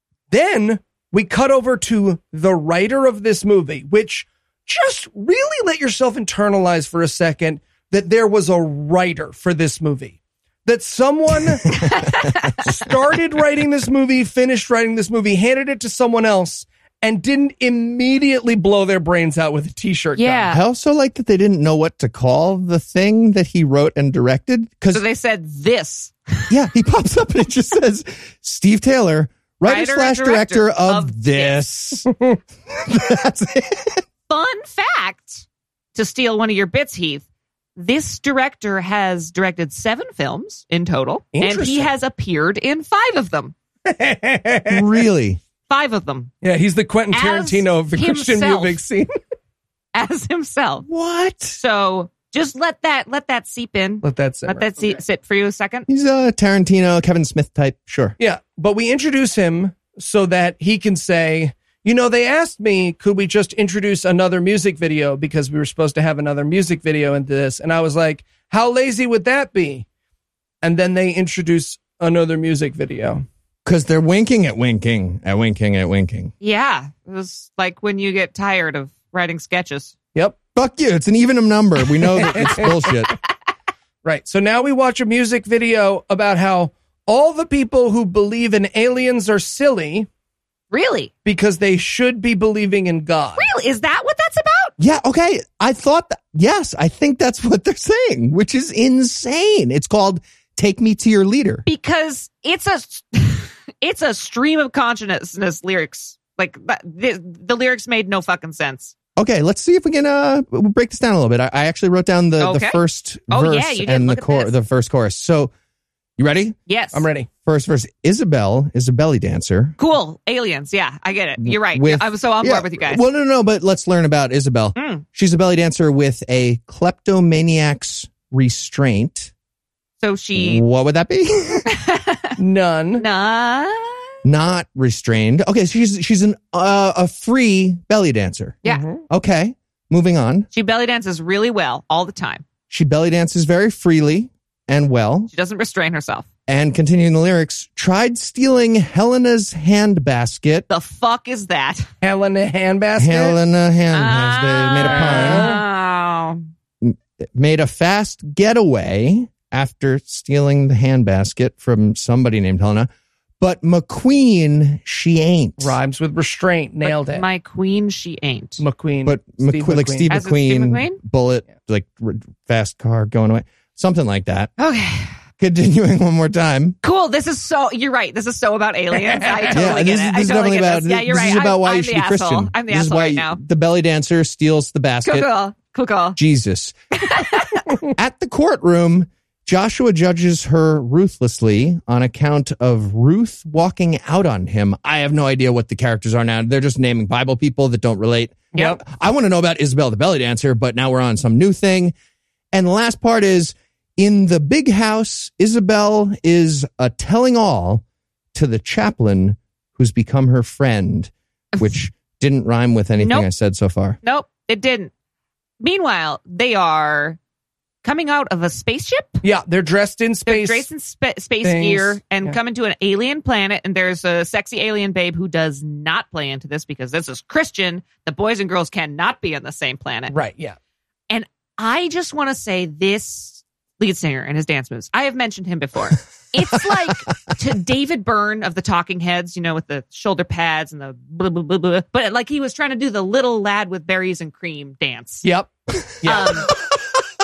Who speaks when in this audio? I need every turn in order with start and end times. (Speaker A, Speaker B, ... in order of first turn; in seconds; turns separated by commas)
Speaker A: 0.3-11.8, Speaker B: 11.7-12.7, Speaker C: 11.8-12.1, Speaker A: 12.6-20.5, Speaker B: 20.2-20.6, Speaker C: 20.5-25.0, Speaker B: 24.9-26.5, Speaker C: 26.5-32.1, Speaker B: 29.6-31.6, Speaker C: 32.7-34.0, Speaker B: 34.3-37.2, Speaker B: 37.8-43.5, Speaker A: 41.3-41.9, Speaker A: 43.9-45.0, Speaker C: 44.7-45.4, Speaker B: 45.7-46.3, Speaker A: 46.4-49.1, Speaker B: 47.1-48.8, Speaker B: 49.9-50.9, Speaker C: 50.9-51.6, Speaker B: 51.6-55.9, Speaker A: 54.0-55.0, Speaker C: 55.9-58.1, Speaker A: 58.2-69.9, Speaker A: 70.6-73.2, Speaker C: 73.7-76.3, Speaker B: 76.4-79.9, Speaker C: 80.5-83.1, Speaker A: 82.2-82.8, Speaker A: 84.0-90.1, Speaker B: 90.7-91.1, Speaker A: 91.2-93.4, Speaker B: 93.4-94.8, Speaker C: 94.8-101.7, Speaker B: 101.7-108.9, Speaker C: 109.2-115.5, Speaker B: 112.4-114.5, Speaker C: 116.2-116.6, Speaker B: 116.7-117.1, Speaker A: 116.9-117.3, Speaker C: 117.5-119.8, Speaker B: 119.8-123.0, Speaker C: 121.4-129.3, Speaker B: 124.8-125.0, Speaker B: 130.0-130.6, Speaker C: 130.4-131.7, Speaker B: 131.7-132.4, Speaker A: 132.4-133.0, Speaker B: 133.0-134.1, Speaker C: 134.2-140.5, Speaker A: 138.7-139.0, Speaker B: 140.5-142.4, Speaker C: 142.7-145.3, Speaker B: 145.3-146.2, Speaker C: 146.5-150.7, Speaker B: 150.7-151.9, Speaker A: 152.0-153.4, Speaker C: 153.0-155.6, Speaker B: 153.9-156.5, Speaker A: 154.8-155.6, Speaker C: 156.8-162.9, Speaker C: 163.4-165.8, Speaker A: 165.6-167.2, Speaker B: 166.8-168.6, Speaker A: 168.6-170.1, Speaker C: 169.1-174.5, Speaker B: 170.1-171.0, Speaker B: 174.6-175.2, Speaker C: 175.4-176.8, Speaker B: 176.8-183.4, Speaker A: 179.0-179.7, Speaker C: 179.5-185.3, Speaker B: 185.0-186.2, Speaker C: 186.2-186.7, Speaker B: 186.9-187.8, Speaker C: 187.9-201.9, Speaker C: 202.5-207.8, Speaker C: 208.3-214.0, Speaker B: 213.0-213.3, Speaker B: 214.0-214.9, Speaker B: 215.6-217.2, Speaker B: 217.8-219.2, Speaker A: 219.2-220.7, Speaker B: 220.3-230.1, Speaker A: 221.4-222.4, Speaker A: 230.1-230.6, Speaker B: 231.1-245.3, Speaker A: 245.2-245.5, Speaker A: 246.0-246.5, Speaker B: 246.0-246.5